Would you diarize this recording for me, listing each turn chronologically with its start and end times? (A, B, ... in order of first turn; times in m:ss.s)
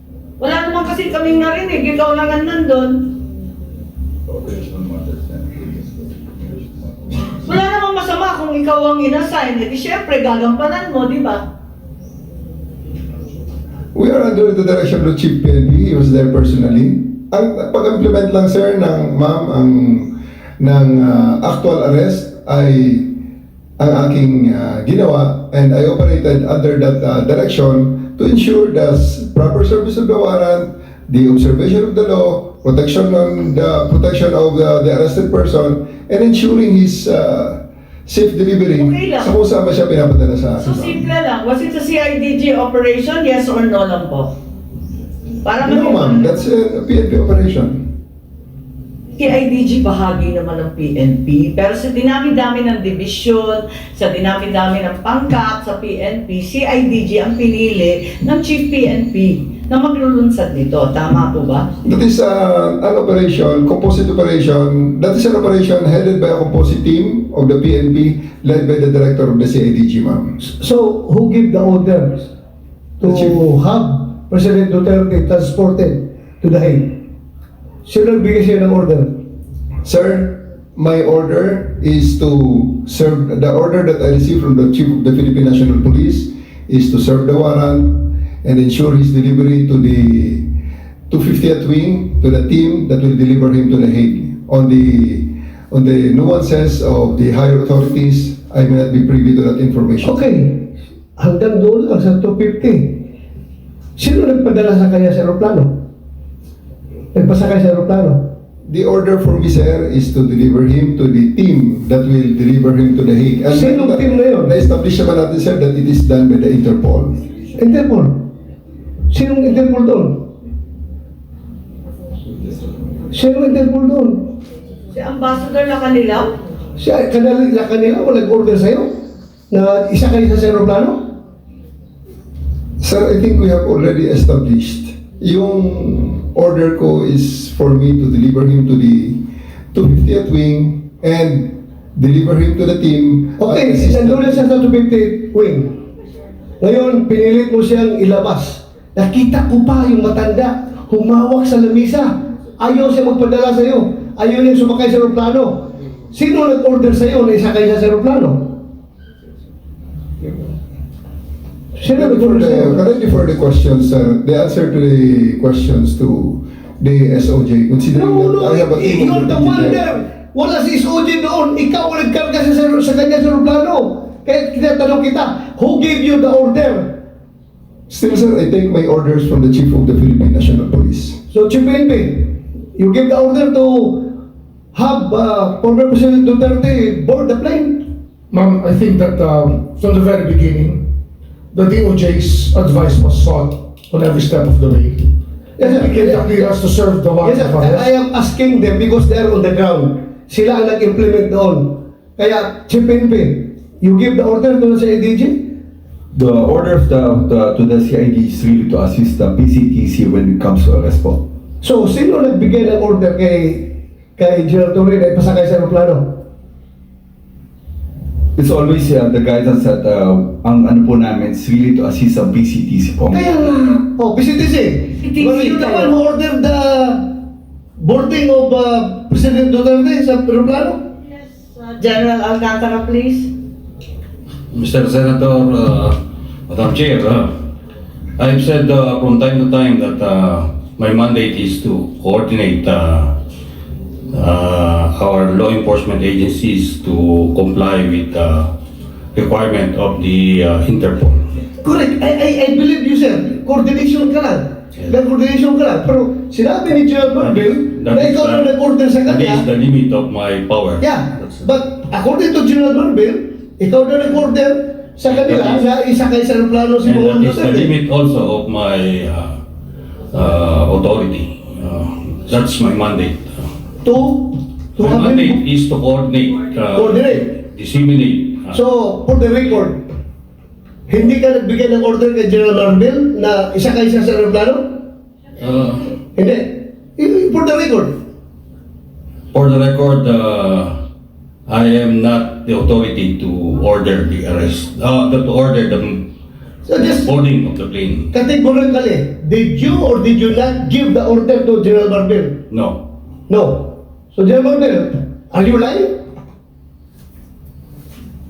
0:00.4-0:03.2 A
0:04.3-0:06.6 B
0:07.4-0:11.4 A
0:13.9-0:23.2 C
0:23.8-0:41.0 C
0:38.8-0:39.3 A
0:40.6-0:44.3 A
0:45.4-0:46.4 A
0:45.6-0:47.8 C
0:49.2-1:01.7 A
1:01.8-1:10.4 C
1:10.4-1:12.3 D
1:13.0-1:17.0 D
1:13.0-1:13.4 C
1:17.9-1:19.2 D
1:19.8-1:30.5 C
1:31.1-1:40.2 C
1:40.0-1:43.1 D
1:44.0-1:45.8 D
1:47.1-1:48.3 D
1:48.7-1:57.1 C
1:53.5-1:54.5 D
1:57.6-1:58.3 D
1:59.1-2:00.3 D
2:03.1-2:04.3 D
2:04.9-2:06.3 A
2:06.8-2:11.1 D
2:12.8-2:24.4 C
2:23.4-2:25.8 D
2:26.6-2:38.6 D
2:41.8-2:42.9 D
2:42.0-2:49.9 C
2:47.9-2:57.0 D
2:57.9-3:01.2 C
3:01.3-3:04.1 D
3:04.7-3:07.9 D
3:08.3-3:10.9 E
3:11.5-3:17.9 E
3:15.6-3:16.6 D
3:17.2-3:25.5 D
3:26.1-3:31.2 B
3:31.6-3:36.2 D
3:38.4-3:43.3 B
3:43.1-3:47.2 D
3:45.0-3:45.9 A
3:47.8-3:50.8 D
3:51.2-3:53.3 A
3:54.5-3:56.0 F
3:56.5-3:57.3 F
3:58.2-4:03.1 F
4:04.1-4:08.5 F
4:09.2-4:11.2 F
4:11.6-4:19.5 D
4:17.2-4:20.8 F
4:20.8-4:27.7 D
4:25.0-4:25.6 F
4:26.8-4:29.3 F
4:30.1-4:33.4 F
4:33.8-4:35.4 D
4:34.8-4:38.6 F
4:36.7-4:37.3 D
4:38.5-4:39.8 D
4:40.9-4:44.8 D
4:45.4-4:45.9 F
4:46.2-4:48.0 D
4:49.3-4:50.7 F
4:51.5-4:56.1 F
4:56.7-4:57.1 D
4:56.7-4:58.1 F
4:58.1-5:02.4 D
5:02.5-5:02.8 F
5:03.3-5:06.0 D